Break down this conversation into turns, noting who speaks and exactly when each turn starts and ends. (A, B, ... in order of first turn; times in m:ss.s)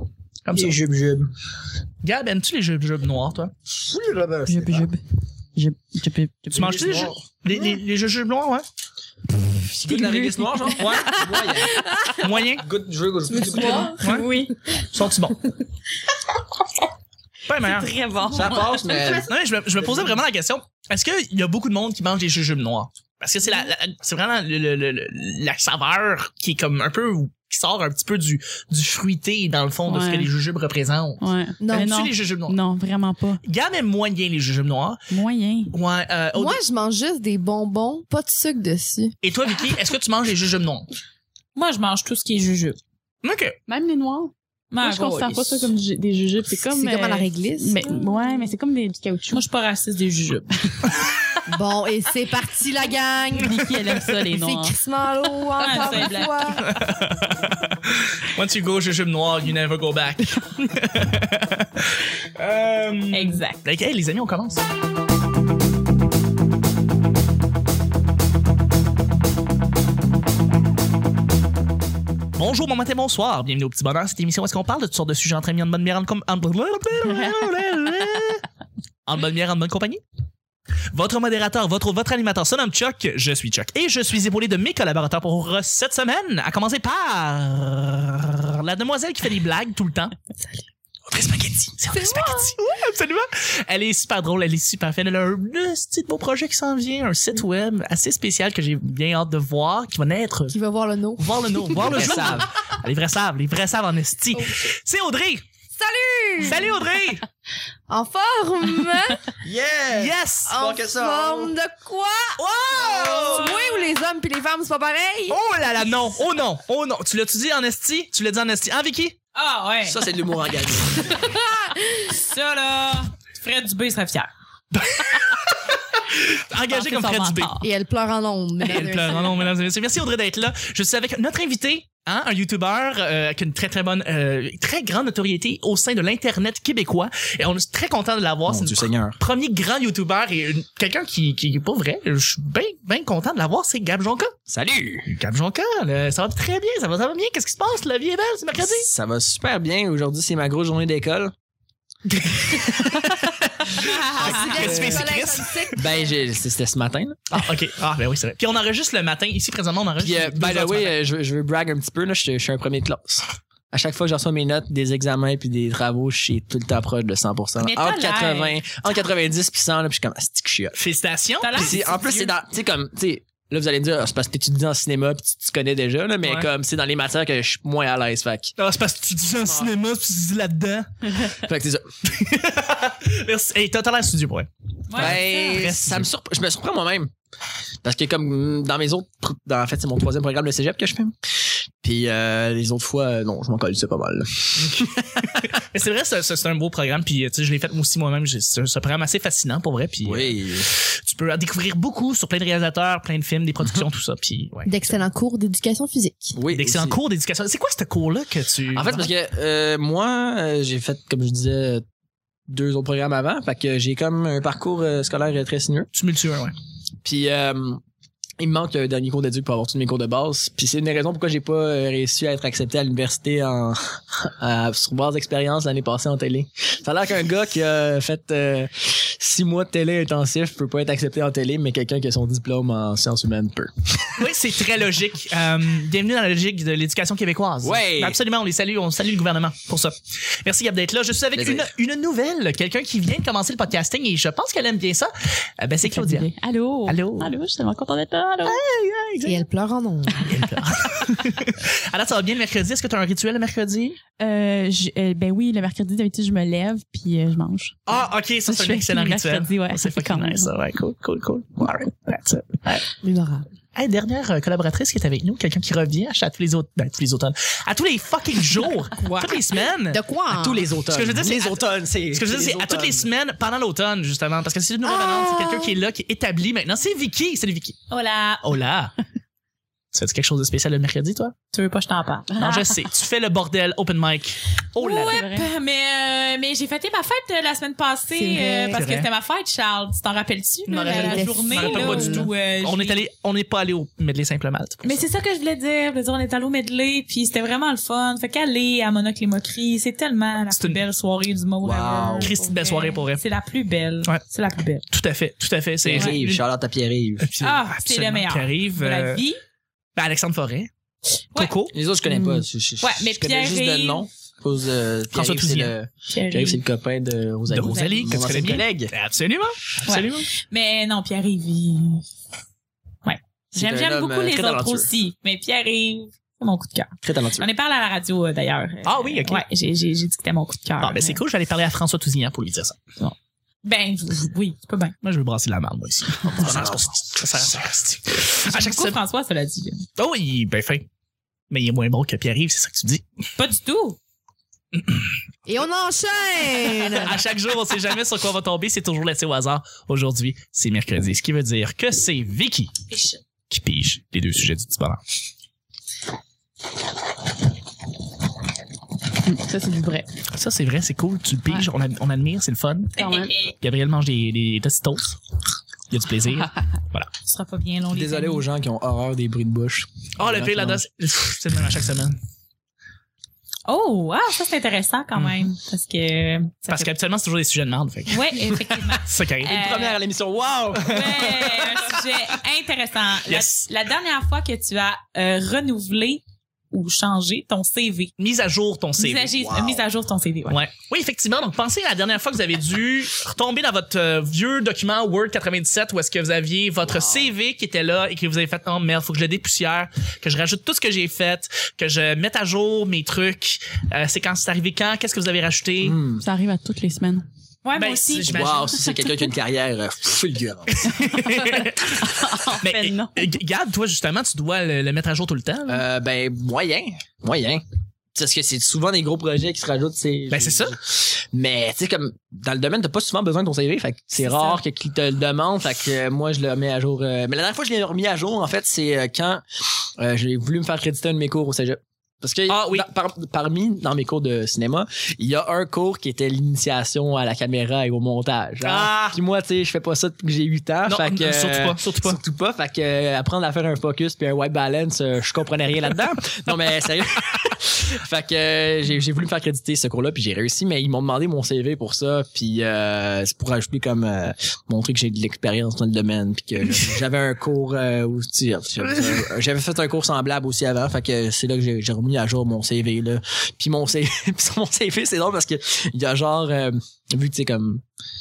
0:00.4-0:00.8 A
0:00.5-0:01.3 B
0:02.0-0:03.5 A
0:03.7-0:04.9 B
0:04.5-0:05.0 C
0:05.5-0:06.7 C
0:06.5-0:07.2 B
0:06.5-0:08.6 A
0:09.4-0:12.3 C
0:09.8-0:11.8 B
0:10.8-0:11.2 A
0:12.2-0:12.6 A
0:12.6-0:14.0 B
0:13.3-0:14.0 D
0:13.5-0:14.6 C
0:14.0-0:14.3 A
0:14.9-0:15.4 A
0:17.5-0:17.9 A
0:17.6-0:19.2 C
0:18.3-0:20.1 B
0:18.9-0:19.2 D
0:19.0-0:32.6 A
0:29.9-0:30.3 C
0:31.2-0:33.4 C
0:31.6-0:31.9 D
0:33.4-0:35.0 A
0:35.1-0:35.8 C
0:35.7-0:36.6 A
0:36.3-0:39.2 D
0:39.2-0:40.9 A
0:41.6-0:42.8 E
0:43.2-0:43.6 A
0:43.7-0:49.4 C
0:44.7-0:45.7 E
0:46.6-0:47.9 D
0:49.3-0:50.5 E
0:50.8-0:51.1 C
0:51.5-0:53.6 D
0:53.4-0:54.8 C
0:54.2-0:56.7 D
0:55.6-0:56.5 E
0:56.6-1:04.6 A
1:03.1-1:03.6 E
1:12.4-1:18.4 A
1:19.1-1:20.0 A
1:20.9-1:30.1 A
1:31.1-1:40.6 A
1:31.9-1:32.6 D
1:40.5-1:41.9 D
1:41.2-1:45.4 A
1:41.8-1:42.5 B
1:44.3-1:44.6 D
1:45.8-1:46.7 D
1:46.4-1:47.2 A
1:47.9-1:49.2 D
1:49.4-1:51.5 B
1:49.9-1:50.6 A
1:50.5-1:55.4 D
1:52.4-1:53.6 A
1:53.0-1:53.9 E
1:55.3-1:59.2 A
1:59.3-2:00.1 E
1:59.8-2:01.1 B
2:02.0-2:04.3 E
2:04.7-2:07.6 A
2:06.7-2:07.5 E
2:07.6-2:09.4 D
2:08.7-2:24.3 A
2:18.5-2:19.2 B
2:24.5-2:25.1 B
2:25.1-2:28.9 A
2:28.6-2:31.3 B
2:32.1-2:35.9 A
2:33.8-2:34.7 E
2:34.1-2:36.2 D
2:34.3-2:35.1 B
2:35.8-2:37.2 B
2:37.3-2:41.0 A
2:40.0-2:50.8 B
2:47.6-2:48.6 E
2:50.7-2:51.8 A
2:51.4-2:52.3 E
2:51.6-2:58.5 B
2:56.2-2:56.5 A
2:58.6-3:00.9 A
2:59.4-2:59.7 B
3:01.4-3:01.8 B
3:02.1-3:06.1 A
3:04.9-3:05.2 E
3:05.0-3:07.1 B
3:07.8-3:11.1 B
3:11.8-3:15.0 B
3:14.6-3:25.0 A
3:20.0-3:20.7 B
3:24.6-3:26.4 D
3:26.4-3:27.0 B
3:26.5-3:29.1 A
3:28.7-3:31.8 B
3:32.5-3:35.9 B
3:35.9-3:36.5 A
3:37.0-3:37.8 B
3:38.4-3:54.2 B
3:54.2-4:06.3 A
3:57.6-3:58.2 B
4:01.3-4:01.7 B
4:05.8-4:08.6 C
4:06.9-4:07.3 A
4:08.4-4:09.4 A
4:09.2-4:10.2 D
4:10.2-4:14.0 A
4:10.2-4:10.5 C
4:14.2-4:20.5 C
4:17.9-4:22.8 A
4:23.0-4:23.5 D
4:23.7-4:30.0 A
4:29.0-4:29.3 B
4:29.6-4:30.6 D
4:30.3-4:33.1 B
4:30.9-4:37.8 A
4:34.8-4:35.8 D
4:37.9-4:38.6 E
4:38.4-4:38.9 A
4:39.9-4:41.4 A
4:41.5-4:42.4 E
4:42.4-4:45.2 A
4:42.4-4:42.8 C
4:44.8-4:45.5 C
4:44.8-4:53.0 E
4:48.1-4:48.8 D
4:48.7-4:49.1 A
4:50.7-4:54.9 A
4:50.9-4:52.3 D
4:54.8-5:04.9 E
5:00.5-5:00.8 A
5:01.6-5:02.3 B
5:02.2-5:03.2 A
5:04.9-5:06.4 A
5:05.8-5:07.3 B
5:07.2-5:09.2 A
5:07.4-5:09.4 E
5:10.0-5:10.7 A
5:11.4-5:11.8 A
5:11.7-5:18.9 B
5:12.0-5:12.5 C
5:12.8-5:14.1 E
5:15.1-5:15.8 A
5:16.1-5:16.6 E
5:17.5-5:20.3 A
5:17.7-5:18.1 E
5:19.8-5:22.1 E
5:23.0-5:31.2 E
5:23.5-5:24.9 B
5:27.0-5:27.5 B
5:28.8-5:29.4 A
5:30.8-5:32.8 A
5:33.0-5:34.9 E
5:35.0-5:39.0 A
5:36.2-5:36.9 B
5:38.2-5:39.9 E
5:40.0-5:40.9 A
5:41.5-5:43.0 A
5:43.4-5:44.0 E
5:44.7-5:45.1 A
5:45.5-5:47.2 D
5:46.9-5:52.7 A
5:52.9-5:53.2 E
5:53.5-5:55.0 A
5:59.2-6:00.1 C
6:00.3-6:03.0 A
6:03.0-6:03.6 E
6:03.0-6:03.3 C
6:03.6-6:05.2 A
6:05.9-6:07.1 A
6:07.2-6:08.5 E
6:07.9-6:10.8 B
6:10.2-6:12.2 A
6:13.7-6:16.9 E
6:16.7-6:18.2 A
6:18.1-6:20.0 E
6:19.0-6:19.6 A
6:19.4-6:21.5 B
6:20.9-6:28.1 E
6:20.9-6:21.3 A
6:23.2-6:23.7 A
6:28.2-6:29.3 A
6:29.0-6:30.6 E
6:29.4-6:29.8 B
6:30.5-6:46.0 A
6:36.8-6:37.3 B
6:45.8-6:46.2 B
6:46.2-6:47.2 C
6:47.6-6:48.4 E
6:47.8-6:48.8 A
6:48.3-6:50.9 B
6:50.7-6:55.8 A
6:51.4-6:53.3 C
6:55.7-6:57.6 B
6:58.2-7:09.4 B
7:00.3-7:00.8 A
7:04.2-7:04.6 E
7:10.0-7:47.8 B
7:12.5-7:12.9 A
7:18.6-7:19.2 A
7:20.9-7:22.2 A